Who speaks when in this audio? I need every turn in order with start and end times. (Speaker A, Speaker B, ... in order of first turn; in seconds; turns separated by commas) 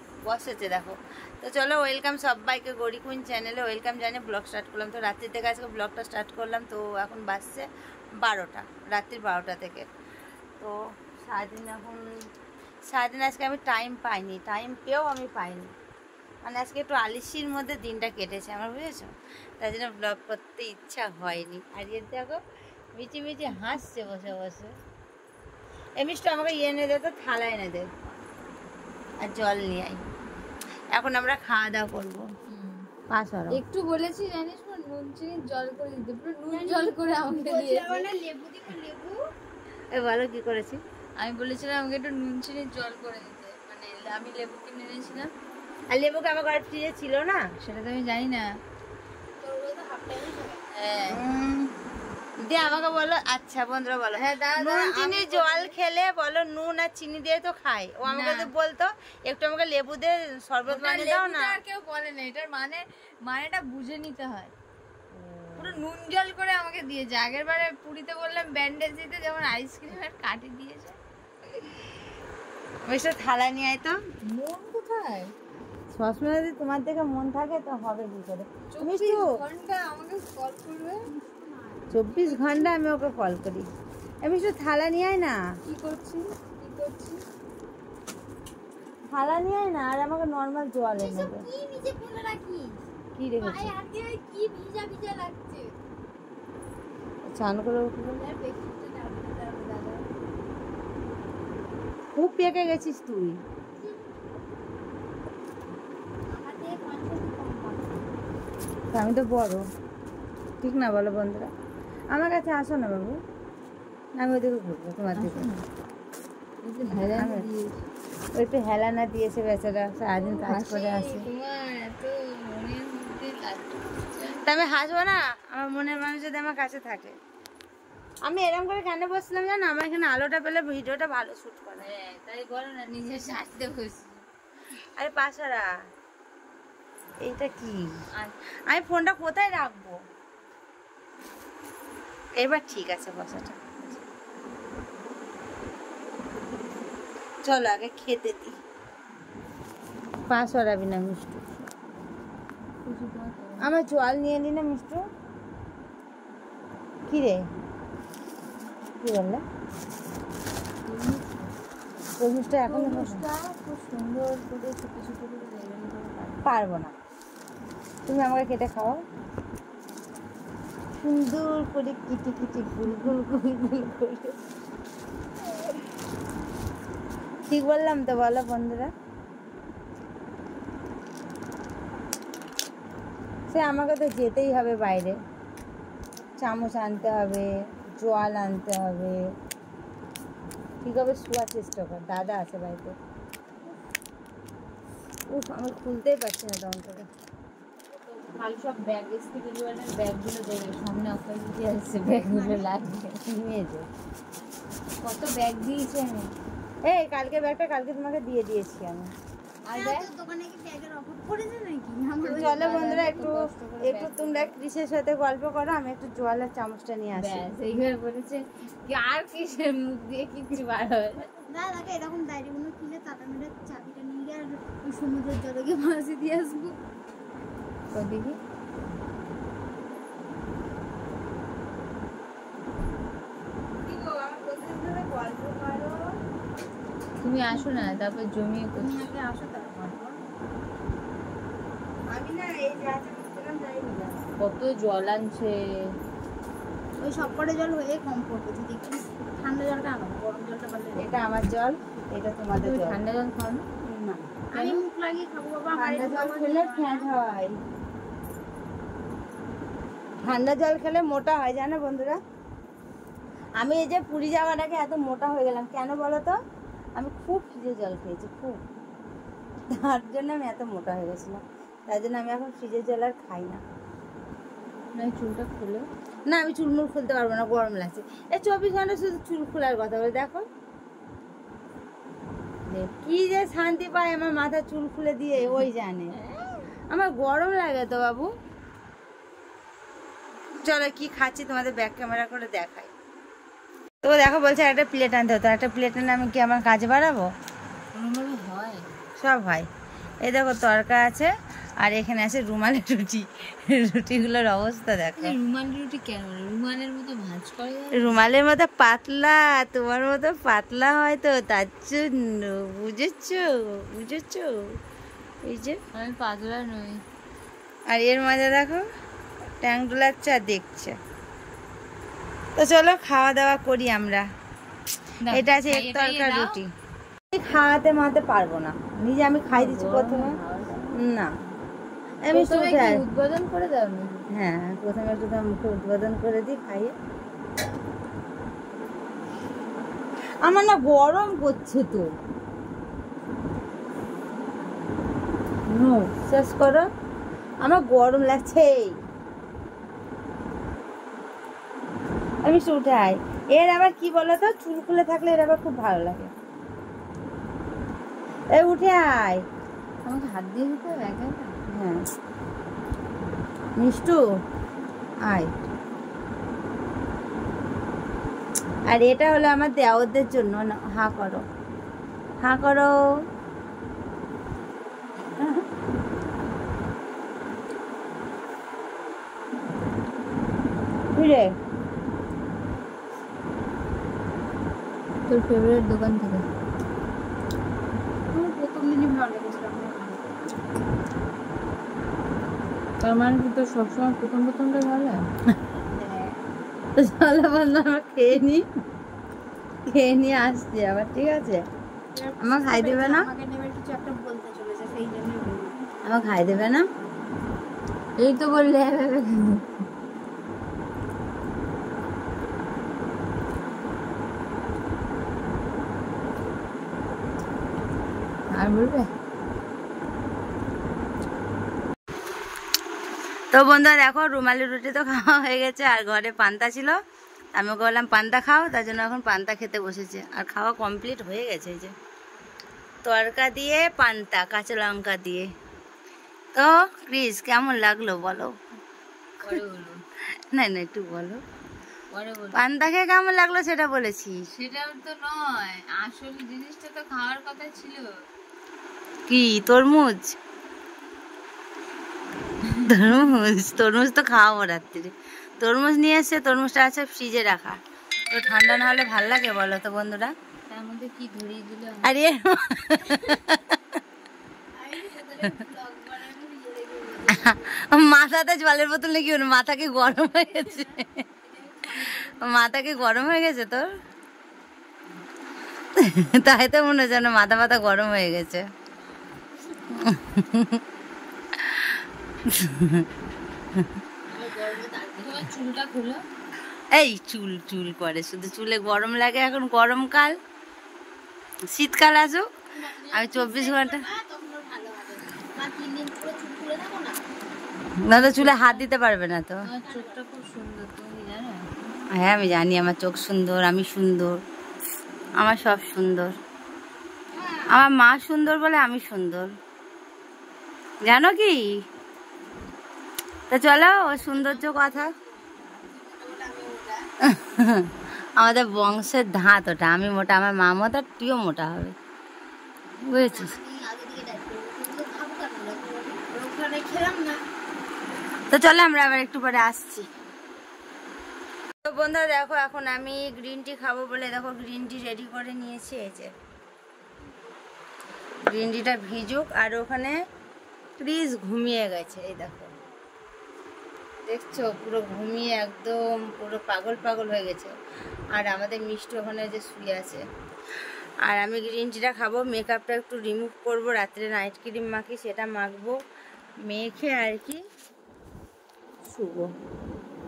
Speaker A: 0.2-7.7, Speaker A: 8.2-9.9, Speaker A: 10.6-12.0, Speaker A: 12.9-15.7, Speaker A: 16.4-22.4, Speaker A: 22.9-24.7, Speaker A: 26.0-27.9, Speaker A: 29.2-30.0, Speaker A: 30.9-32.2, Speaker B: 32.5-32.9, Speaker A: 33.1-33.6, Speaker B: 33.5-38.1, Speaker C: 36.5-39.2, Speaker A: 39.9-40.8, Speaker B: 41.2-45.3, Speaker A: 45.9-47.5, Speaker B: 47.6-48.5, Speaker C: 49.4-50.6, Speaker B: 50.7-51.2, Speaker A: 51.1-51.7, Speaker A: 52.4-61.6, Speaker B: 54.1-55.7, Speaker B: 58.1-58.5, Speaker B: 60.7-64.5, Speaker B: 65.6-71.0, Speaker A: 72.8-74.0, Speaker B: 74.2-75.3, Speaker A: 75.9-79.3, Speaker B: 78.7-81.0, Speaker C: 81.0-82.9, Speaker A: 81.9-83.7, Speaker A: 84.2-85.4, Speaker B: 85.7-87.2, Speaker A: 89.1-91.4, Speaker C: 91.0-92.8, Speaker A: 93.2-93.7, Speaker C: 93.4-95.7, Speaker A: 97.3-98.2, Speaker C: 98.2-100.0, Speaker A: 102.2-103.4, Speaker C: 103.8-104.1, Speaker C: 106.3-108.1, Speaker A: 108.9-109.6, Speaker A: 110.6-111.5, Speaker A: 112.1-113.2, Speaker A: 114.2-115.5, Speaker B: 115.2-115.7, Speaker B: 116.6-117.8, Speaker A: 117.0-117.5, Speaker A: 118.3-121.3, Speaker B: 120.1-124.4, Speaker A: 124.4-127.2, Speaker A: 128.2-131.8, Speaker B: 131.8-134.2, Speaker A: 135.0-135.7, Speaker A: 137.2-137.8, Speaker A: 138.7-139.9, Speaker A: 142.4-144.0, Speaker A: 147.4-148.6, Speaker A: 150.3-151.7, Speaker B: 152.8-153.6, Speaker A: 153.6-155.0, Speaker A: 157.1-157.4, Speaker A: 159.0-159.4, Speaker B: 160.8-161.5, Speaker A: 162.2-163.2, Speaker B: 162.7-166.4, Speaker A: 166.4-166.9, Speaker A: 168.1-169.0, Speaker A: 171.0-174.3, Speaker A: 177.5-178.9, Speaker A: 183.5-185.2, Speaker A: 186.4-189.2, Speaker A: 190.8-192.9, Speaker A: 195.3-197.1, Speaker B: 198.2-203.2, Speaker C: 202.2-202.7, Speaker A: 203.3-203.9, Speaker B: 205.0-206.3, Speaker A: 206.8-209.1, Speaker B: 209.6-210.1, Speaker C: 209.7-212.8, Speaker B: 212.2-214.5, Speaker A: 212.3-217.4, Speaker B: 217.2-221.3, Speaker C: 221.4-226.8, Speaker B: 227.9-228.4, Speaker A: 233.8-236.1, Speaker B: 237.2-239.1, Speaker C: 237.5-238.0, Speaker C: 238.8-240.2, Speaker A: 242.1-244.3, Speaker B: 244.4-246.0, Speaker C: 247.0-251.0, Speaker A: 251.0-253.0, Speaker B: 252.5-253.7, Speaker A: 253.8-254.2, Speaker C: 254.5-257.1, Speaker B: 254.5-254.8, Speaker A: 255.8-257.5, Speaker A: 260.2-262.2, Speaker A: 263.6-266.4, Speaker A: 266.9-268.6, Speaker A: 269.7-273.6, Speaker B: 274.9-275.9, Speaker A: 276.3-280.4, Speaker A: 282.9-286.2, Speaker B: 285.4-285.7, Speaker A: 286.9-288.3, Speaker A: 290.6-292.9, Speaker A: 294.0-297.3, Speaker B: 297.9-298.9, Speaker A: 299.2-299.7, Speaker A: 300.2-305.4, Speaker B: 305.2-308.2, Speaker A: 307.9-314.5, Speaker A: 315.4-315.8, Speaker B: 315.9-317.0, Speaker A: 317.9-318.8, Speaker A: 319.6-321.0, Speaker A: 322.6-324.3, Speaker B: 325.2-326.6, Speaker A: 325.3-326.7, Speaker A: 327.3-330.4, Speaker B: 329.5-331.0, Speaker A: 330.9-331.3, Speaker A: 332.2-333.0, Speaker B: 332.3-334.2, Speaker A: 334.3-336.9, Speaker A: 340.4-342.1, Speaker A: 345.7-346.9, Speaker A: 347.6-349.0, Speaker A: 352.4-356.3, Speaker A: 358.5-359.4, Speaker B: 360.0-361.6, Speaker A: 361.7-362.0, Speaker A: 363.8-364.2, Speaker A: 365.3-365.6, Speaker A: 368.9-371.4, Speaker A: 372.4-372.9, Speaker A: 375.4-375.6, Speaker A: 381.1-381.5, Speaker B: 385.3-386.4, Speaker C: 388.3-390.3, Speaker B: 393.0-395.2, Speaker C: 395.9-396.4, Speaker A: 397.0-398.6, Speaker A: 399.9-401.6, Speaker C: 402.1-405.9, Speaker A: 402.4-403.3, Speaker A: 406.0-406.8, Speaker B: 408.2-409.6, Speaker B: 418.5-419.1, Speaker A: 423.5-427.0, Speaker A: 427.5-431.9, Speaker A: 433.0-435.5, Speaker A: 436.5-438.5, Speaker B: 439.4-440.0, Speaker A: 440.5-441.4, Speaker B: 442.1-442.6, Speaker A: 442.5-444.4, Speaker B: 444.5-448.1, Speaker A: 449.3-450.4, Speaker B: 452.8-453.1, Speaker A: 452.8-460.3, Speaker B: 460.7-462.1, Speaker A: 462.0-463.8, Speaker C: 464.7-467.8, Speaker A: 467.3-471.2, Speaker C: 470.1-472.5, Speaker A: 471.9-473.9, Speaker A: 476.0-478.6, Speaker A: 479.9-480.8, Speaker A: 481.6-481.9, Speaker A: 482.5-483.1, Speaker C: 484.3-485.5, Speaker B: 485.2-486.2, Speaker A: 486.9-490.4, Speaker A: 491.7-492.5, Speaker C: 492.7-497.2, Speaker A: 493.1-494.0, Speaker A: 498.0-499.7, Speaker B: 498.1-498.8, Speaker B: 499.6-502.1, Speaker C: 499.7-500.2, Speaker A: 502.1-504.4, Speaker A: 505.4-506.3, Speaker A: 507.7-509.5, Speaker A: 511.1-511.6, Speaker A: 513.5-515.1, Speaker C: 514.3-517.0, Speaker A: 517.2-521.9, Speaker A: 523.0-523.5, Speaker C: 523.1-527.4, Speaker A: 528.5-530.1, Speaker A: 531.8-536.3, Speaker A: 538.5-540.2, Speaker A: 541.0-542.7, Speaker A: 544.2-547.7, Speaker A: 548.3-550.2, Speaker A: 551.2-556.0, Speaker A: 556.6-557.6, Speaker A: 559.0-559.5